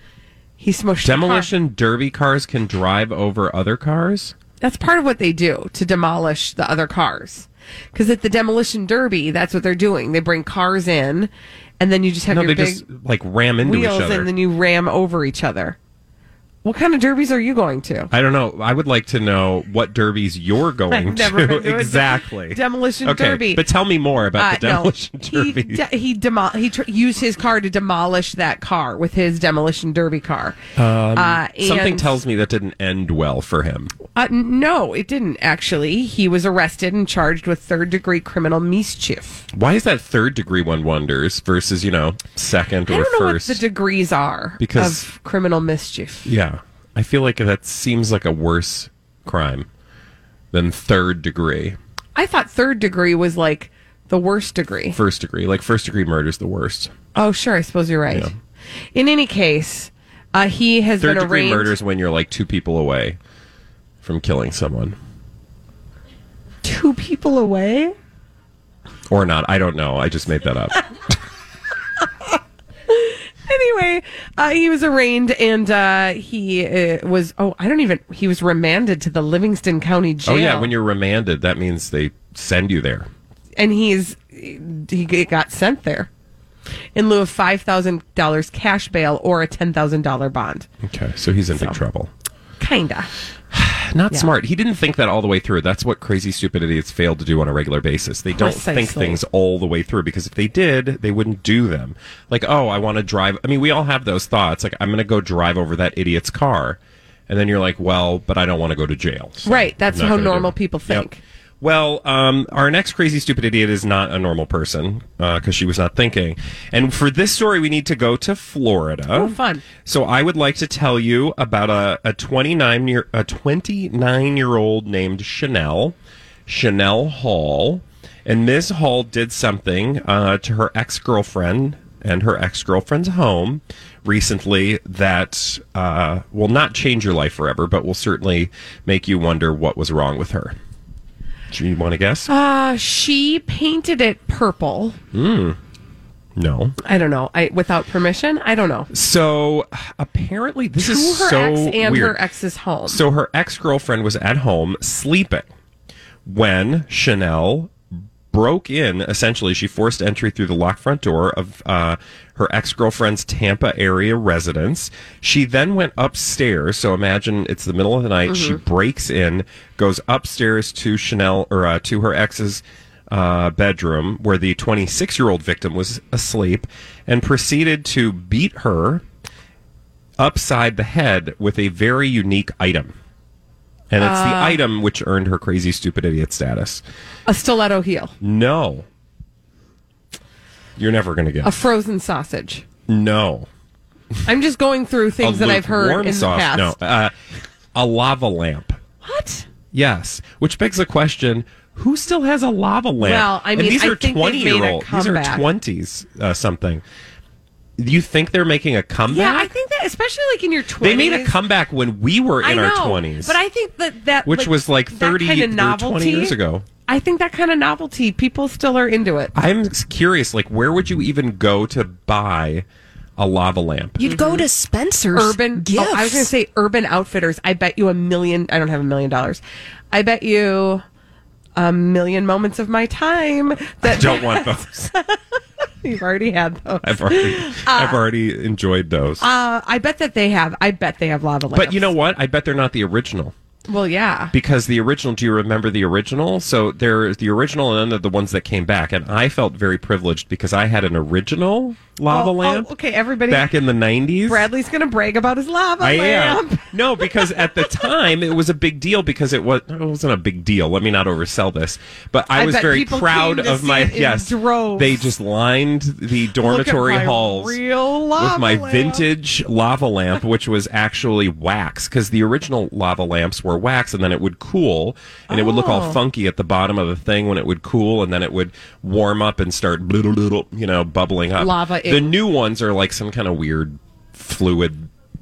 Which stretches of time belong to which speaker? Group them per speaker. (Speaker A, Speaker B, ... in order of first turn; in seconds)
Speaker A: 0.6-1.5, 4.6-12.8, 13.6-15.8, 16.6-18.1, 20.9-23.6, 24.3-30.6, 31.1-32.1, 34.1-39.4, 42.9-46.3, 52.1-55.0, 57.1-58.3, 58.9-61.7, 66.6-67.9, 72.9-80.7, 83.6-86.1, 86.9-90.7, 92.6-93.1, 98.3-99.2, 109.4-111.2, 119.1-119.7, 142.3-145.0, 146.8-148.9, 150.8-153.0, 168.3-168.6, 184.0-184.6, 187.3-188.1, 191.4-192.6, 194.2-196.7, 199.0-199.4, 203.0-205.4, 209.1-211.3, 212.4-216.3, 216.9-219.3, 224.0-224.4, 225.1-229.4, 229.9-230.8, 231.6-238.0, 239.2-241.9, 243.7-244.3, 252.1-253.5, 254.2-257.7, 262.3-265.1, 266.4-269.0, 275.3-276.0, 281.4-282.1
Speaker B: 1.0-4.3, 12.3-14.3, 18.1-25.8, 30.8-33.9, 39.5-43.6, 44.6-45.0, 46.2-49.7, 50.5-51.8, 54.9-56.9, 61.0-63.2, 64.0-65.0, 69.1-70.8, 80.2-83.1, 90.8-92.1, 93.5-111.1, 111.6-126.0, 126.5-140.6, 141.5-142.3, 145.1-145.6, 146.3-146.8, 148.9-152.2, 152.9-155.5, 156.2-157.7, 158.3-179.0, 180.2-182.9, 183.9-186.8, 188.2-188.8, 190.8-191.6, 192.9-193.5, 195.2-197.1, 197.7-198.8, 199.7-206.8, 207.8-209.5, 210.8-213.3, 214.2-216.7, 219.3-222.7, 223.2-224.1, 233.8-234.9, 236.8-239.2, 241.5-243.3, 244.3-252.7, 253.3-254.5, 255.8-267.6, 268.2-284.9
Speaker C: 224.0-226.3